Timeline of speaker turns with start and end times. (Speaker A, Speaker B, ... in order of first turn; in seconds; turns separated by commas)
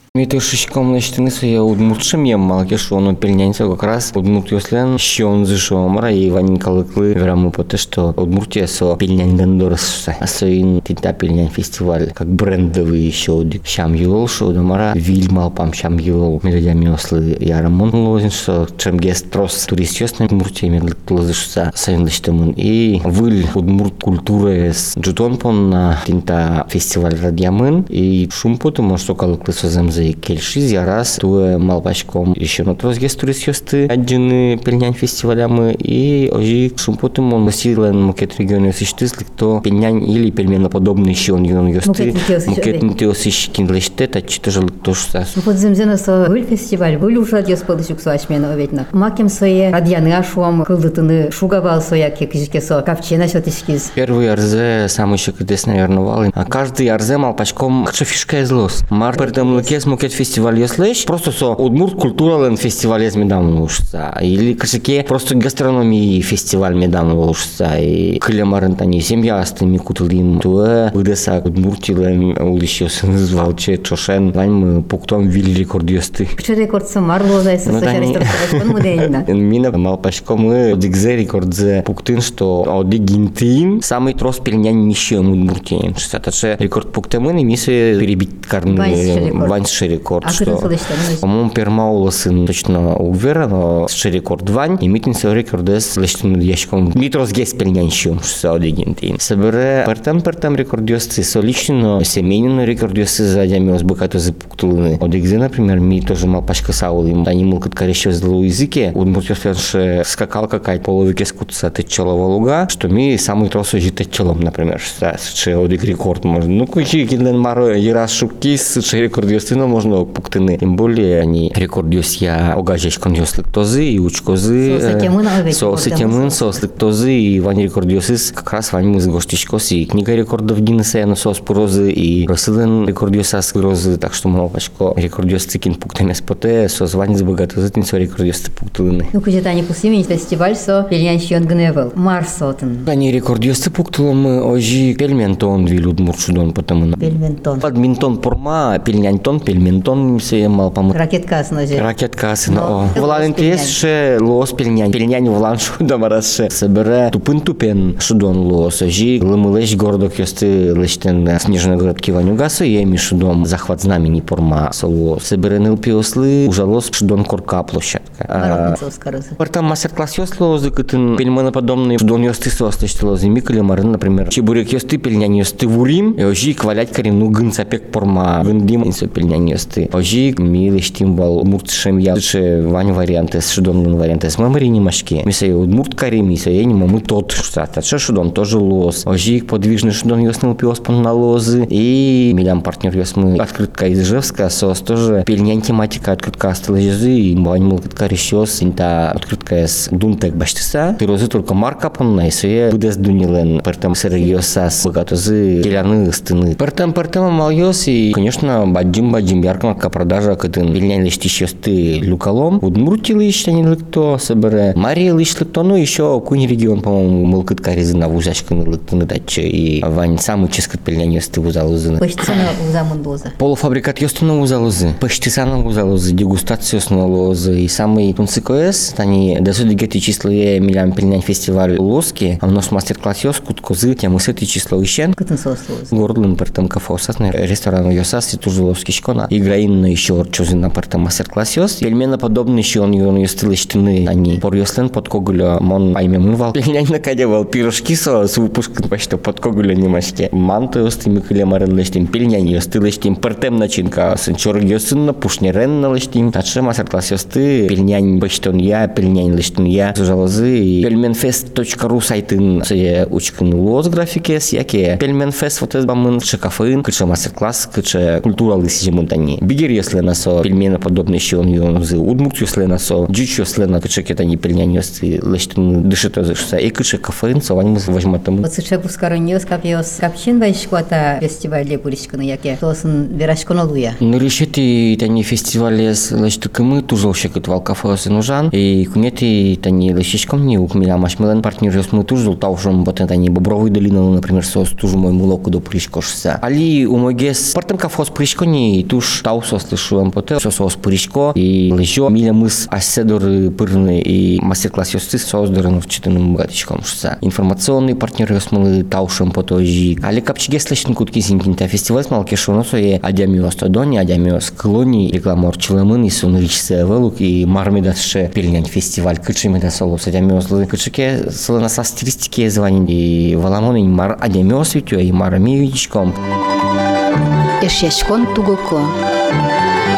Speaker A: 0.1-45.4, Speaker B: 41.8-42.9, Speaker B: 45.3-53.9, Speaker A: 53.9-76.4, Speaker B: 59.1-59.8, Speaker B: 76.4-79.3, Speaker A: 77.7-139.1, Speaker B: 88.7-89.6, Speaker B: 90.2-91.2, Speaker B: 124.6-126.6, Speaker B: 139.1-142.9, Speaker A: 142.9-147.0, Speaker B: 147.0-147.6, Speaker A: 147.6-151.0, Speaker B: 150.9-151.9, Speaker A: 151.7-168.8, Speaker B: 152.4-153.8, Speaker B: 168.3-169.4, Speaker A: 169.4-222.0, Speaker B: 222.0-223.3, Speaker A: 223.4-235.2, Speaker B: 235.2-235.9, Speaker A: 235.9-278.4, Speaker B: 278.4-284.0, Speaker A: 284.0-326.2, Speaker B: 327.6-328.9